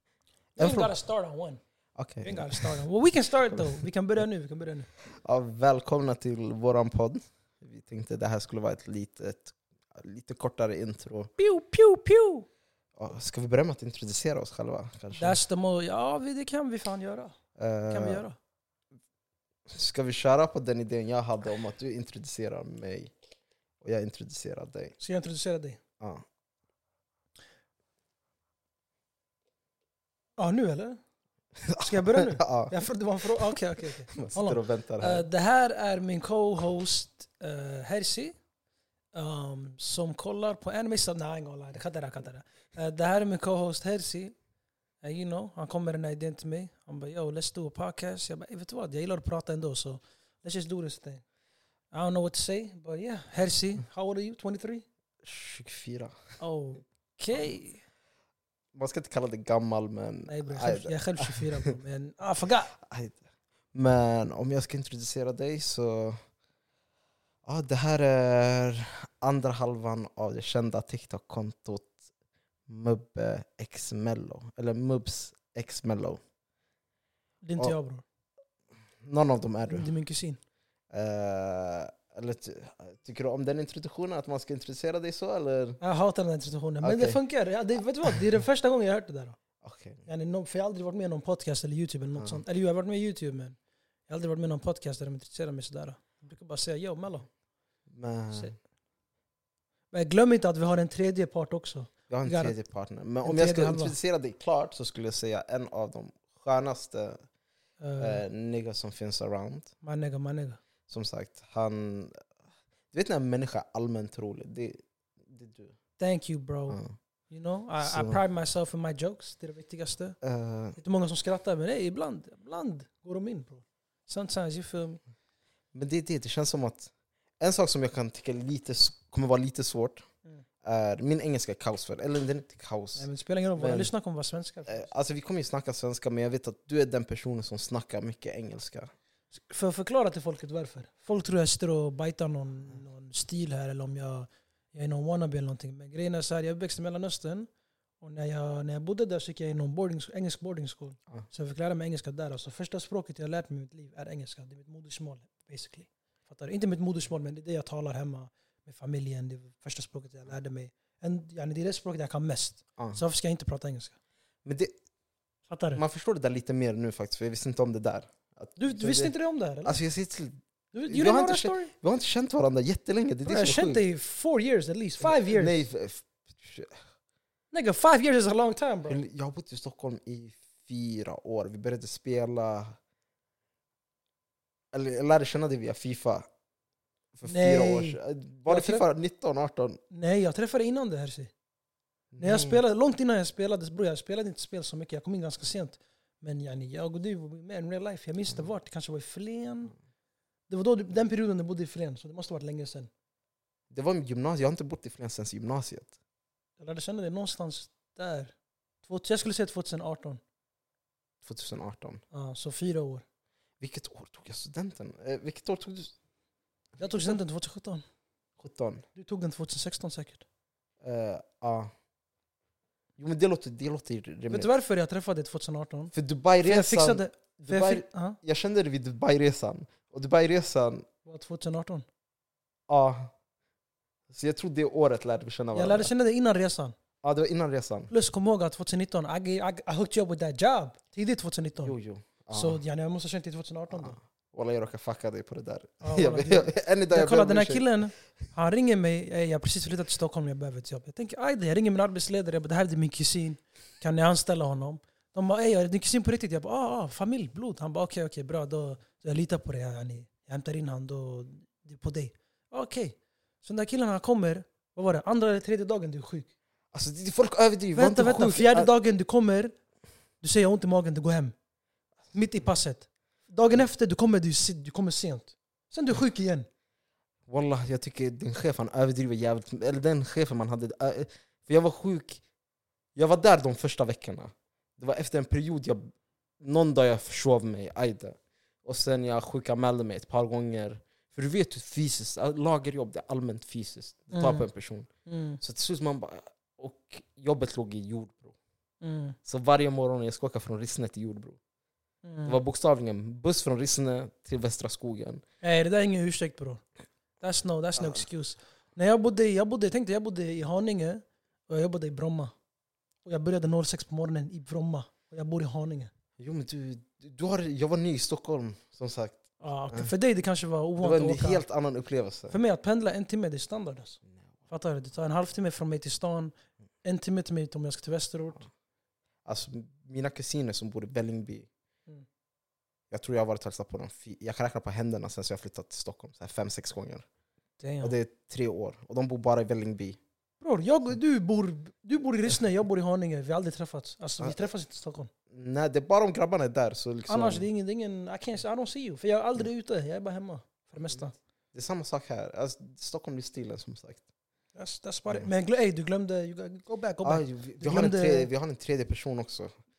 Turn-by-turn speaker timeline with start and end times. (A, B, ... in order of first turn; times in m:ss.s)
0:00.6-0:01.6 A
0:00.6-0:00.9 B
0:02.0-0:02.8 B
0:02.2-0:04.9 A
0:03.5-0:03.8 B
0:05.1-0:11.3 B
0:11.4-0:12.5 A
0:13.0-0:15.4 B
0:15.2-0:17.4 A
0:17.6-0:18.2 B
0:17.9-0:18.4 A
0:19.7-0:23.1 B
0:23.8-0:24.9 B
0:25.0-0:25.8 A
0:30.4-0:31.0 A
0:31.6-0:32.8 B
0:31.8-0:38.3 A
0:34.1-0:35.2 B
0:39.1-0:44.3 A
0:45.0-0:51.2 A
0:51.9-0:54.8 A
0:55.2-0:56.2 B
0:56.4-0:57.8 A
0:58.7-1:01.7 B
1:00.3-1:02.7 A
1:02.7-1:03.2 B
1:03.7-1:06.2 B
1:07.4-1:11.9 B
1:12.7-1:16.2 B
1:17.4-1:18.0 A
1:19.0-1:19.9 B
1:19.7-1:20.4 A
1:20.9-1:25.8 B
1:25.8-1:29.4 A
1:26.8-1:27.2 B
1:29.6-1:30.0 B
1:30.0-1:33.6 A
1:32.2-1:32.4 B
1:34.1-1:37.3 A
1:37.9-1:38.6 B
1:39.9-1:42.5 A
1:42.1-1:47.2 B
1:43.2-1:44.0 A
1:47.8-1:48.2 A
1:48.0-1:49.7 B
1:49.8-1:50.6 A
1:50.9-1:52.2 B
1:52.9-1:55.7 B
1:56.0-1:56.8 A
1:56.7-1:56.9 B
1:57.3-2:00.2 A
1:57.8-1:58.2 B
2:00.2-2:00.8 B
2:00.8-2:05.0 A
2:05.7-2:10.0 B
2:10.6-2:13.9 B
2:13.0-2:14.9 A
2:14.7-2:18.9 B
2:19.3-2:27.5 A
2:28.0-2:43.9 A
2:44.4-2:44.7 B
2:45.5-2:45.8 A
2:45.7-2:49.1 B
2:48.6-2:49.8 A
2:49.6-2:53.8 B
2:50.7-2:51.7 A
2:53.2-2:55.6 A
2:55.0-2:56.8 B
2:57.5-2:59.0 A
2:58.9-3:02.8 B
3:04.7-3:06.3 B
3:07.1-3:09.8 B
3:07.2-3:08.8 A
3:09.9-3:11.3 A
3:12.1-3:12.6 B
3:12.2-3:19.7 A
3:20.5-3:22.9 A
3:23.7-3:25.9 B
3:26.6-3:28.3 A
3:28.8-3:30.2 A
3:31.2-3:32.0 B
3:32.1-3:33.0 A
3:33.6-3:35.9 B
3:36.8-3:37.8 A
3:38.4-3:38.8 B
3:39.0-3:40.2 A
3:40.8-3:41.7 B
3:43.0-3:44.5 B
3:44.3-3:48.2 A
3:45.9-3:50.8 B
3:51.0-3:51.8 A
3:52.7-3:53.1 B
3:54.1-3:55.9 B
3:55.5-3:56.7 A
3:57.0-3:57.9 B
3:57.9-4:01.7 A
4:01.6-4:02.6 B
4:02.3-4:04.0 A
4:03.7-4:07.6 B
4:05.8-4:26.3 A
4:26.7-4:28.7 B
4:27.7-4:29.5 A
4:30.2-4:31.3 A
4:32.1-4:36.5 A
4:37.3-4:42.2 B
4:42.9-4:54.9 B
4:54.1-4:54.5 A
4:55.0-4:55.4 A
4:55.4-4:58.3 B
4:58.8-4:59.2 A
4:59.2-5:01.4 B
5:02.0-5:02.4 A
5:02.2-5:05.2 B
5:05.4-5:06.6 A
5:07.2-5:12.3 A
5:13.0-5:15.9 A
5:16.2-5:19.9 B
5:19.4-5:21.4 A
5:20.8-5:22.4 B
5:22.3-5:28.5 A
5:29.2-5:31.5 B
5:32.9-5:37.0 B
5:37.6-5:38.0 A
5:37.8-5:40.0 B
5:40.4-5:45.1 A
5:44.2-5:44.4 B
5:45.3-5:47.4 B
5:47.1-5:51.1 A
5:51.5-5:54.0 B
5:54.5-5:58.3 A
5:57.0-5:59.5 B